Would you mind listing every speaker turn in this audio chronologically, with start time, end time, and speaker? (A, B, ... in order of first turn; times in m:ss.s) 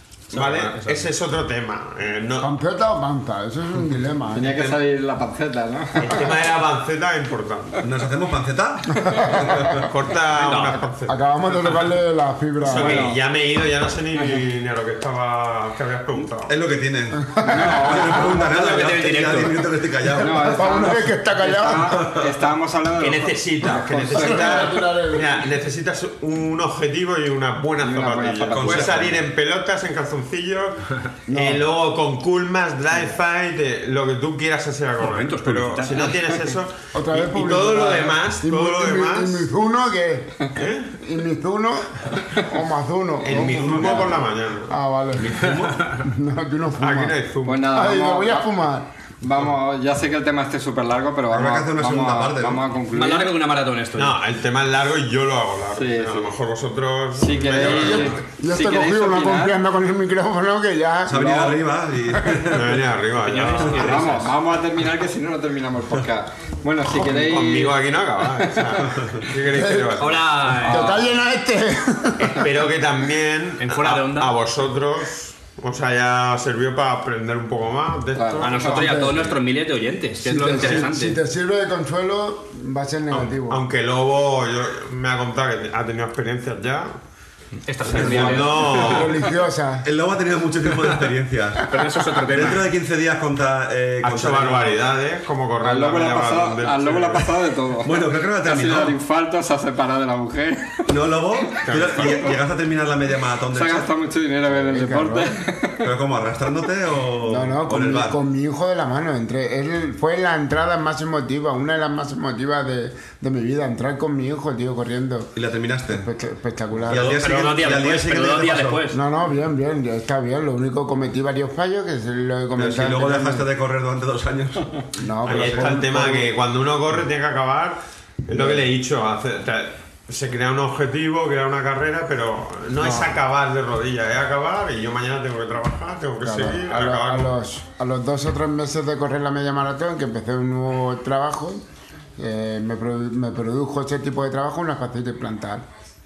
0:00.3-0:01.1 A
0:00.3-0:02.5 B
0:02.4-0:04.6 C
0:04.3-0:06.3 D
0:06.0-0:07.8 B
0:07.8-0:09.9 E
0:09.0-0:09.9 C
0:09.7-0:11.2 B
0:10.4-0:10.8 A
0:11.1-0:13.0 C
0:12.6-0:16.6 B
0:12.7-0:13.2 D
0:16.5-0:20.7 E
0:17.2-0:18.2 C
0:17.4-0:18.8 D
0:18.3-0:19.7 A
0:20.2-0:24.7 D
0:20.3-0:22.1 C
0:21.9-0:22.3 E
0:23.0-0:39.5 B
0:24.1-0:25.4 C
0:27.8-0:29.2 D
0:28.5-0:29.2 E
0:31.3-0:31.6 C
0:35.0-0:36.3 A
0:36.9-0:47.2 C
0:40.5-0:40.9 B
0:43.2-0:44.8 B
0:43.3-0:44.2 E
0:45.2-0:46.0 E
0:46.8-0:47.7 B
0:47.5-0:48.5 D
0:47.7-0:48.9 C
0:49.2-0:53.3 D
0:51.3-0:52.8 E
0:52.9-0:54.2 A
0:54.0-0:58.2 B
0:55.8-0:56.3 D
0:57.2-0:59.6 D
0:57.5-1:01.6 C
1:01.1-1:02.9 E
1:01.1-1:01.6 D
1:02.1-1:02.6 C
1:02.5-1:04.2 B
1:03.2-1:04.3 A
1:03.6-1:07.8 D
1:06.9-1:10.8 B
1:08.4-1:09.0 D
1:09.4-1:12.6 C
1:10.0-1:11.0 A
1:12.2-1:19.2 B
1:13.6-1:14.4 A
1:18.2-1:19.3 D
1:18.4-1:21.2 A
1:18.7-1:19.2 C
1:20.2-1:23.6 C
1:23.1-1:26.9 B
1:27.7-1:29.1 A
1:27.8-1:29.2 B
1:28.0-1:29.0 D
1:28.0-1:28.5 E
1:28.7-1:29.9 C
1:29.8-1:34.8 E
1:31.7-1:32.6 A
1:34.0-1:37.4 B
1:35.6-1:42.4 D
1:37.8-1:39.0 E
1:40.9-1:43.9 E
1:41.6-1:42.3 B
1:43.5-1:45.9 D
1:44.6-1:45.3 C
1:45.8-1:48.2 E
1:47.2-1:55.3 C
1:55.4-1:56.1 E
1:55.9-1:57.3 C
1:56.9-1:58.8 E
1:56.9-1:59.0 A
1:58.9-2:03.5 C
2:02.6-2:05.8 E
2:05.0-2:06.3 C
2:05.3-2:17.4 B
2:08.3-2:08.7 C
2:12.8-2:13.2 C
2:16.2-2:21.6 C
2:22.2-2:25.7 C